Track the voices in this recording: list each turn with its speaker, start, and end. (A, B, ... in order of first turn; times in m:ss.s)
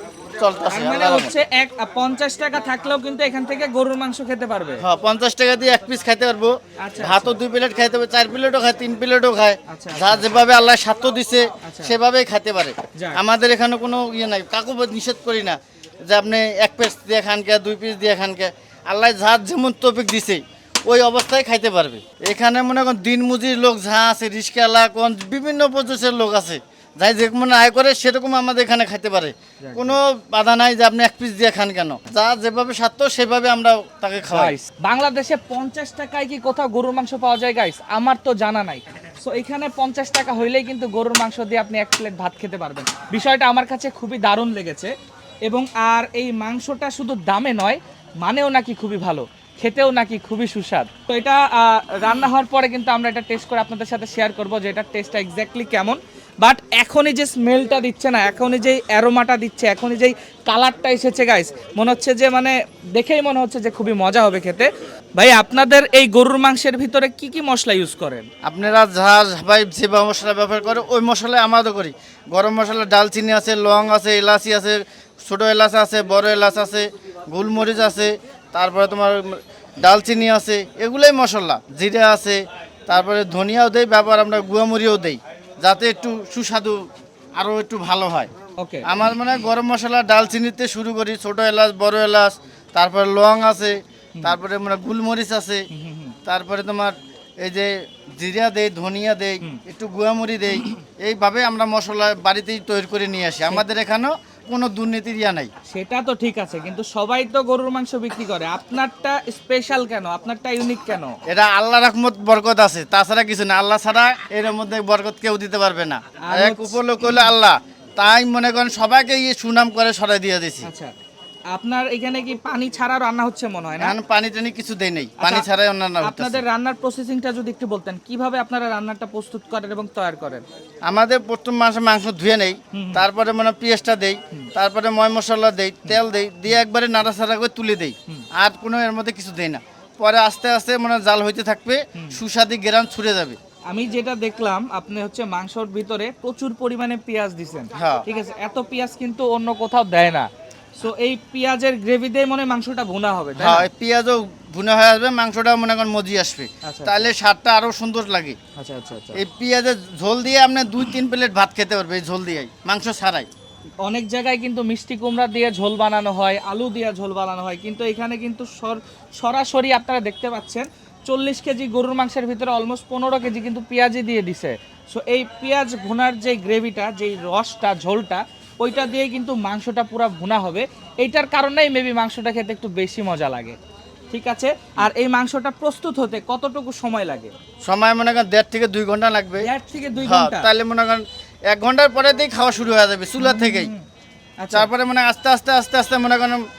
0:00.4-0:01.4 A
0:00.7-0:04.8 B
0:04.8-0:34.6 A
0:06.8-0:07.4 B
0:09.7-0:10.3 B
0:11.6-0:11.9 B
0:29.6-0:30.0 B
0:34.3-0:44.9 B
0:45.4-1:08.3 B
1:08.4-1:28.3 A
1:28.6-1:28.8 B
1:28.8-1:35.6 A
1:35.7-1:36.1 B
1:36.2-1:45.5 A
1:45.7-1:51.2 B
1:51.3-2:00.7 A
1:56.2-1:56.8 B
2:00.6-2:00.9 B
2:01.5-2:04.0 B
2:03.8-2:06.4 A
2:05.2-2:05.4 B
2:06.0-2:10.4 B
2:10.9-2:23.4 A
2:12.7-2:13.0 B
2:23.7-2:33.7 B
2:27.7-2:28.0 A
2:33.4-2:38.4 A
2:36.6-2:37.1 B
2:38.6-2:39.2 B
2:39.1-2:43.3 A
2:43.8-3:03.6 B
3:04.1-3:07.3 B
3:07.6-3:09.5 A
3:09.4-3:10.5 B
3:10.0-3:13.7 A
3:13.2-3:13.8 B
3:14.4-3:14.7 B
3:14.5-3:16.4 A